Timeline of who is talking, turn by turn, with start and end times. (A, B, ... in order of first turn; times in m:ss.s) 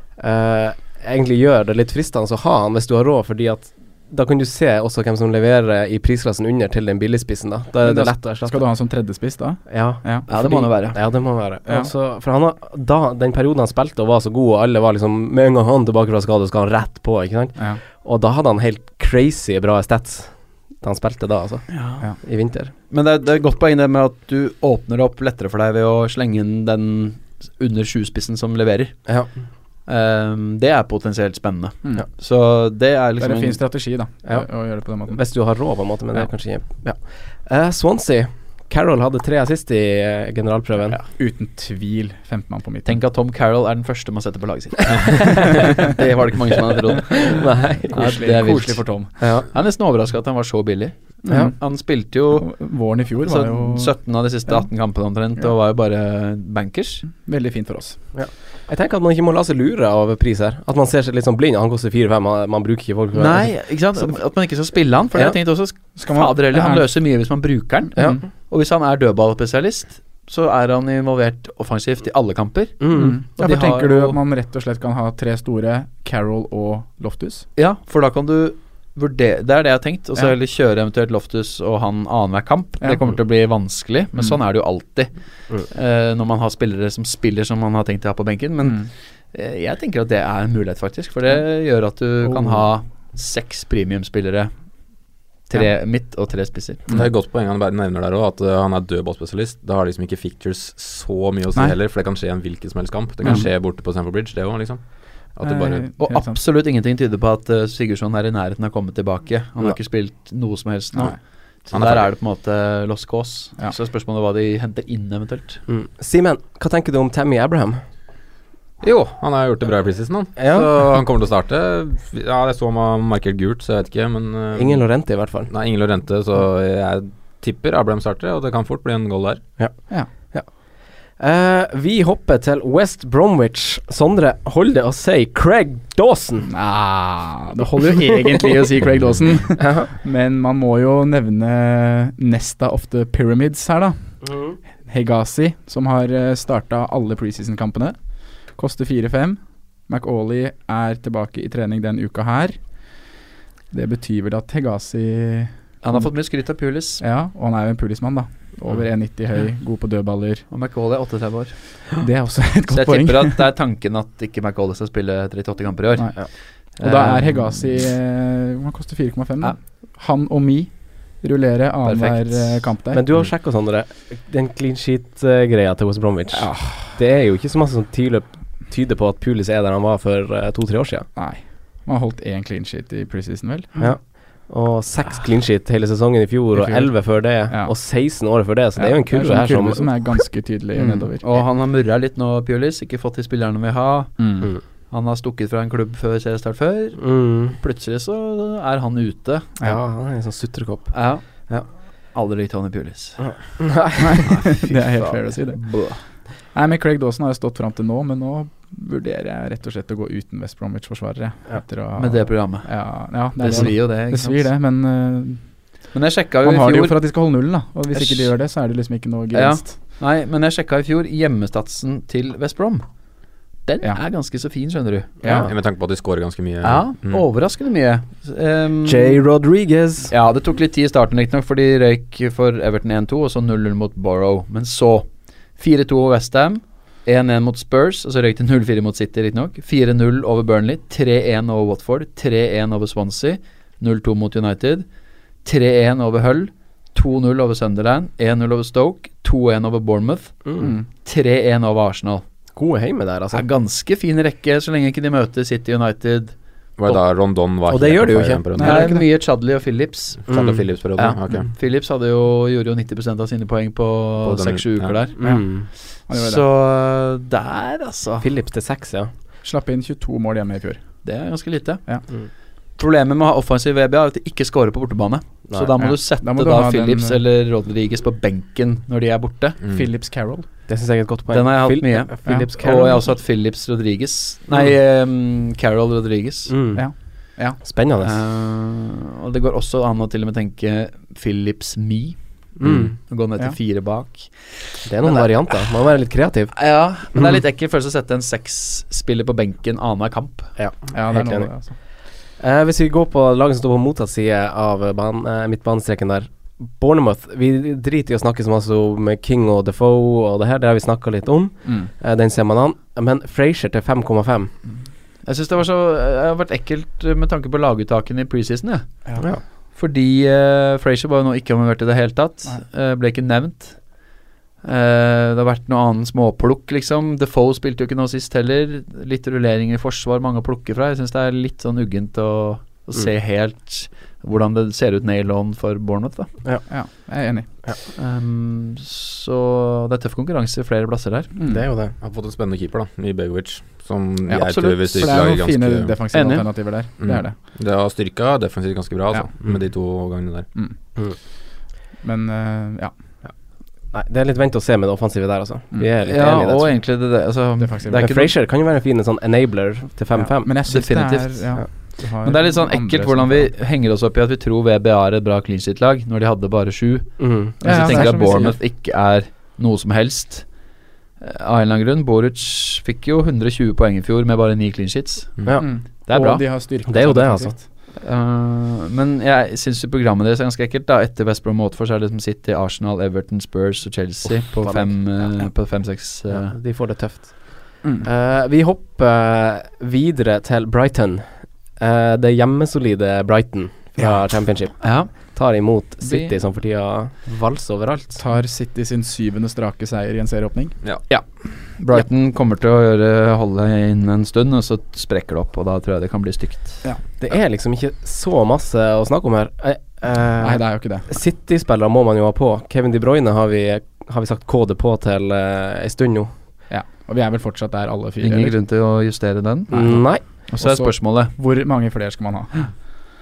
0:00.2-0:08.6 A
0:07.8-0:11.0 B
0:09.7-0:22.7 A
0:10.3-0:11.0 C
0:11.6-0:11.9 B
0:17.6-0:17.8 B
0:21.7-0:22.1 C
0:22.9-0:29.0 C
0:29.1-0:29.3 A
0:29.9-0:33.6 C
0:33.2-0:35.2 B
0:34.2-0:41.0 A
0:41.1-0:43.0 B
0:42.8-0:52.6 C
0:47.3-0:48.0 A
0:47.9-0:49.1 B
0:49.2-0:49.5 A
0:51.2-0:54.7 B
0:51.3-0:51.5 A
0:53.2-0:57.1 C
0:57.1-0:58.1 B
0:58.1-1:03.9 A
1:03.1-1:14.2 C
1:06.0-1:06.9 B
1:08.0-1:08.2 B
1:08.0-1:08.2 A
1:12.8-1:13.2 A
1:12.9-1:17.5 B
1:17.6-1:34.5 C
1:28.6-1:28.9 B
1:32.2-1:32.6 B
1:35.5-1:36.8 C
1:36.9-1:37.1 B
1:36.9-1:45.9 D
1:45.4-1:46.4 B
1:46.0-1:55.6 C
1:51.7-1:52.1 D
1:55.7-1:57.8 A
1:58.8-2:04.9 D
2:00.4-2:00.7 A
2:04.5-2:05.5 A
2:05.5-2:09.4 D
2:09.6-2:10.5 A
2:11.2-2:16.5 A
2:16.5-2:24.3 B
2:19.6-2:19.9 A
2:24.2-2:24.6 A
2:24.8-2:32.6 B
2:33.7-2:40.4 B
2:35.8-2:37.0 C
2:40.5-2:41.9 C
2:42.0-2:43.5 B
2:42.7-2:47.7 C
2:46.0-2:53.0 B
2:51.9-2:52.1 C
2:52.9-3:01.1 A
2:56.3-2:57.0 B
3:01.2-3:03.9 B
3:03.8-3:10.2 A
3:06.5-3:07.8 B
3:08.8-3:11.4 B
3:10.8-3:11.1 A
3:11.2-3:19.5 C
3:14.2-3:14.5 B
3:17.0-3:17.6 A
3:19.6-3:21.7 A
3:20.9-3:21.5 C
3:22.1-3:23.6 C
3:23.2-3:24.2 A
3:24.0-3:26.0 B
3:24.3-3:26.0 C
3:26.5-3:35.5 B
3:32.0-3:34.5 C
3:35.9-3:37.0 C
3:36.4-3:39.8 B
3:37.9-3:38.3 C
3:39.3-3:42.9 C
3:43.6-3:45.2 C
3:45.2-3:45.5 A
3:45.5-3:47.3 D
3:46.6-3:49.2 C
3:48.8-3:50.1 A
3:50.1-4:04.9 C
4:05.4-4:12.2 C
4:10.4-4:10.7 A
4:10.6-4:10.9 B
4:12.6-4:13.4 A
4:13.3-4:16.4 C
4:16.8-4:18.9 D
4:17.7-4:18.7 A
4:18.6-4:19.1 B
4:18.6-4:20.4 C
4:20.3-4:20.7 A
4:20.3-4:21.5 D
4:21.0-4:28.3 C
4:24.2-4:25.0 D
4:25.2-4:25.7 A
4:25.2-4:26.4 B
4:28.2-4:29.1 A
4:29.4-4:31.0 B
4:31.0-4:31.9 C
4:32.8-4:39.6 C
4:35.5-4:35.8 A
4:35.8-4:37.2 B
4:39.6-4:39.9 D
4:39.7-4:40.5 B
4:40.7-4:43.1 A
4:41.3-4:46.5 C
4:46.5-4:46.8 A
4:46.8-4:47.7 B
4:47.6-4:48.2 A
4:48.0-4:52.2 C
4:52.6-4:53.0 A
4:52.7-4:55.7 C
4:54.8-4:57.3 A
4:56.6-5:00.5 C
5:00.6-5:01.5 A
5:00.9-5:01.8 B
5:02.4-5:14.5 A
5:11.6-5:11.9 B
5:15.2-5:19.0 C
5:19.7-5:23.8 C
5:24.6-5:36.3 C
5:36.7-5:37.5 B
5:38.0-5:41.3 C
5:41.4-5:41.7 B
5:41.5-5:42.0 A
5:42.0-5:46.0 D
5:44.3-5:47.4 B
5:46.1-5:46.5 C
5:47.0-5:50.5 D
5:52.0-5:53.0 B
5:53.9-5:56.8 A
5:56.0-5:58.3 C
5:57.6-5:58.2 B
5:57.9-6:00.6 A
6:00.1-6:03.5 B
6:00.7-6:10.5 C
6:07.2-6:08.2 A
6:07.6-6:08.6 B
6:11.2-6:15.6 C
6:15.4-6:17.6 A
6:15.6-6:17.6 B
6:16.1-6:16.4 C
6:18.0-6:26.6 C
6:24.6-6:25.2 A
6:26.3-6:38.2 A
6:34.8-6:35.4 C
6:36.0-6:36.3 C
6:38.2-6:40.8 B
6:41.1-6:46.8 C
6:47.2-6:56.3 A
6:50.4-6:51.1 B
6:56.7-6:58.6 B
6:58.2-7:01.4 C
6:59.7-7:00.2 A
7:00.5-7:02.7 B